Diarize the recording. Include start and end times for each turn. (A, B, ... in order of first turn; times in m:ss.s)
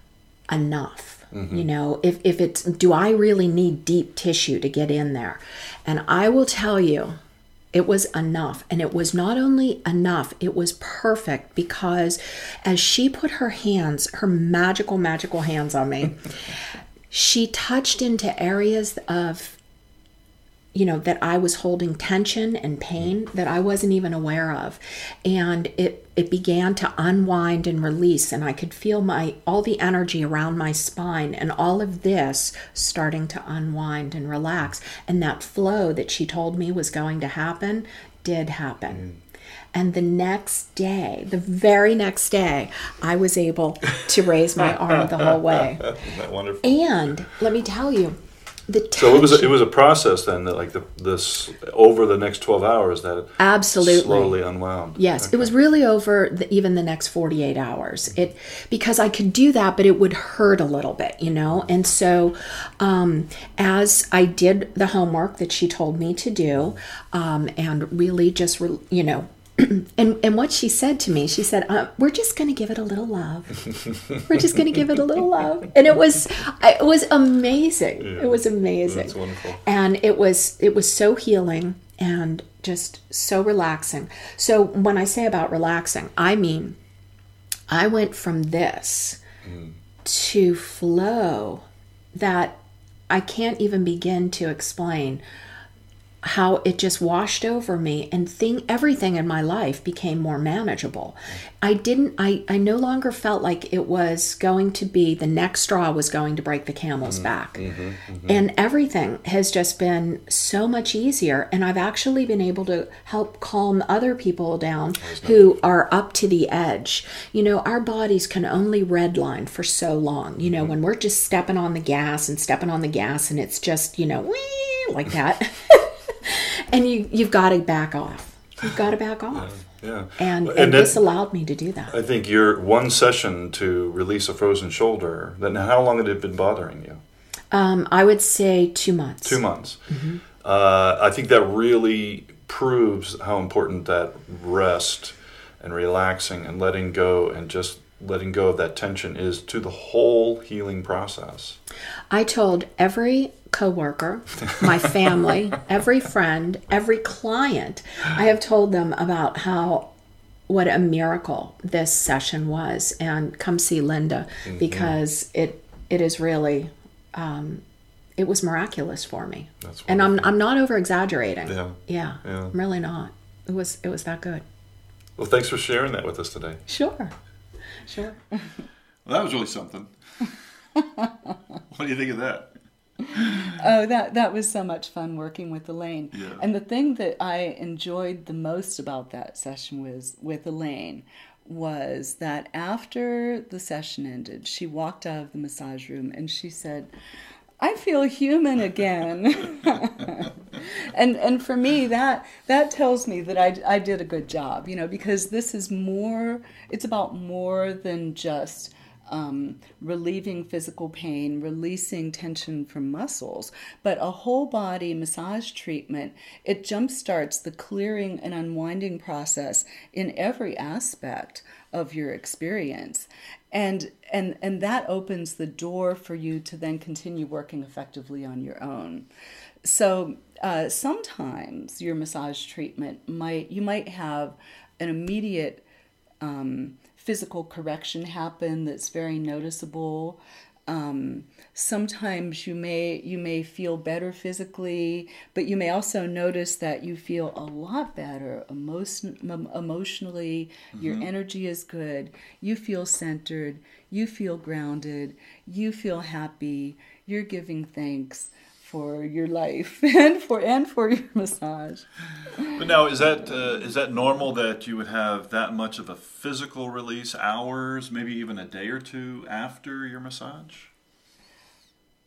0:00.5-0:07.2 A
0:01.3-0:01.7 B
0:07.7-0:16.6 A
0:17.1-0:19.6 A
0:20.7-0:39.1 A
0:39.7-0:46.0 A
0:45.1-0:46.7 B
0:46.6-0:49.6 A
0:49.0-0:55.5 B
0:53.4-0:54.4 A
0:55.0-1:26.8 A
1:18.0-1:19.6 B
1:27.7-1:29.2 A
1:29.4-1:29.8 B
1:30.0-1:35.2 A
1:36.2-1:47.7 A
1:47.0-1:48.4 B
1:48.3-2:09.5 A
1:55.0-1:55.5 B
2:00.4-2:00.8 B
2:09.3-2:11.0 B
2:10.2-2:12.0 A
2:11.9-2:17.0 B
2:17.5-2:20.2 A
2:19.2-2:19.8 B
2:20.4-2:31.6 B
2:32.1-2:39.9 A
2:40.5-2:47.6 A
2:44.5-2:45.0 B
2:48.2-2:54.4 A
2:49.6-2:50.3 B
2:51.5-2:52.6 B
2:55.2-2:56.6 B
2:56.7-2:57.1 A
2:57.8-2:58.2 A
2:59.0-3:00.4 B
3:00.8-3:01.1 C
3:01.7-3:02.6 B
3:03.2-3:03.5 B
3:03.2-3:16.9 C
3:06.1-3:06.5 B
3:17.6-3:49.1 C
3:49.6-3:55.6 C
3:56.2-4:22.6 C
4:10.7-4:11.1 B
4:22.5-4:30.7 B